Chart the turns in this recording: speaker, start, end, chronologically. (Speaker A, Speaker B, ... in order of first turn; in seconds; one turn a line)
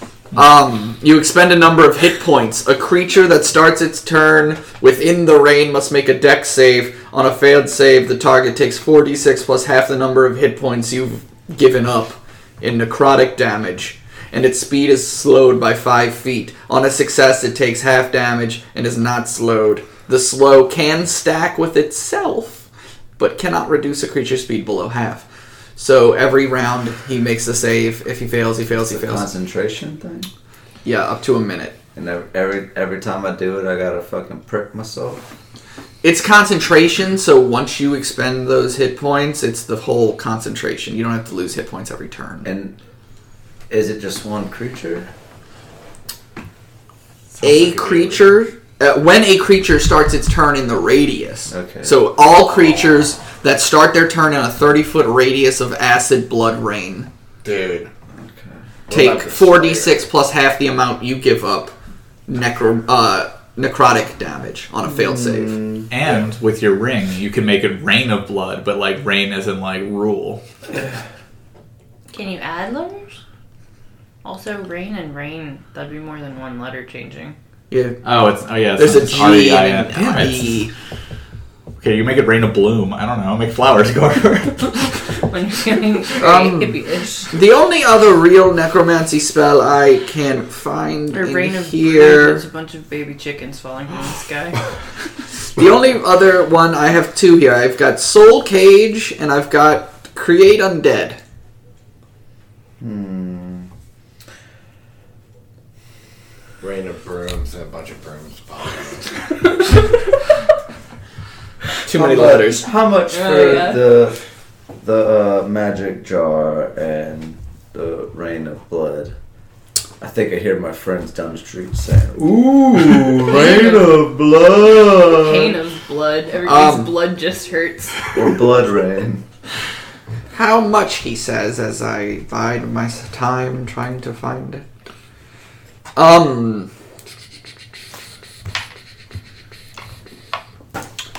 Speaker A: 0.3-22.7
Speaker A: 23.2-25.3
Speaker A: 25.8-29.3
Speaker B: 28.7-30.3
Speaker A: 30.9-31.8
Speaker B: 31.9-35.3
Speaker A: 36.0-42.5
Speaker B: 42.4-42.8
Speaker B: 43.7-45.1
Speaker A: 47.4-57.1
Speaker C: 47.4-48.2
Speaker B: 51.5-52.0
Speaker C: 57.4-57.9
Speaker B: 58.1-58.7
Speaker C: 58.9-60.1
Speaker A: 58.9-61.7
Speaker A: 62.3-65.6
Speaker B: 64.9-65.9
Speaker D: 65.9-70.4
Speaker E: 72.1-73.2
Speaker E: 74.2-77.4
Speaker A: 77.7-78.0
Speaker D: 78.0-80.6
Speaker A: 78.8-80.7
Speaker D: 81.8-85.2
Speaker E: 85.3-87.4
Speaker A: 86.2-86.8
Speaker A: 87.3-92.4
Speaker E: 91.1-94.7
Speaker A: 95.6-101.2
Speaker B: 102.8-103.7
Speaker C: 106.6-109.3
Speaker A: 111.8-112.7
Speaker B: 111.9-114.2
Speaker E: 113.1-113.8
Speaker B: 114.7-119.2
Speaker B: 120.0-125.6
Speaker E: 123.2-124.0
Speaker E: 125.1-128.1
Speaker A: 126.4-127.0
Speaker B: 128.1-129.2
Speaker A: 130.3-134.7
Speaker A: 135.9-136.7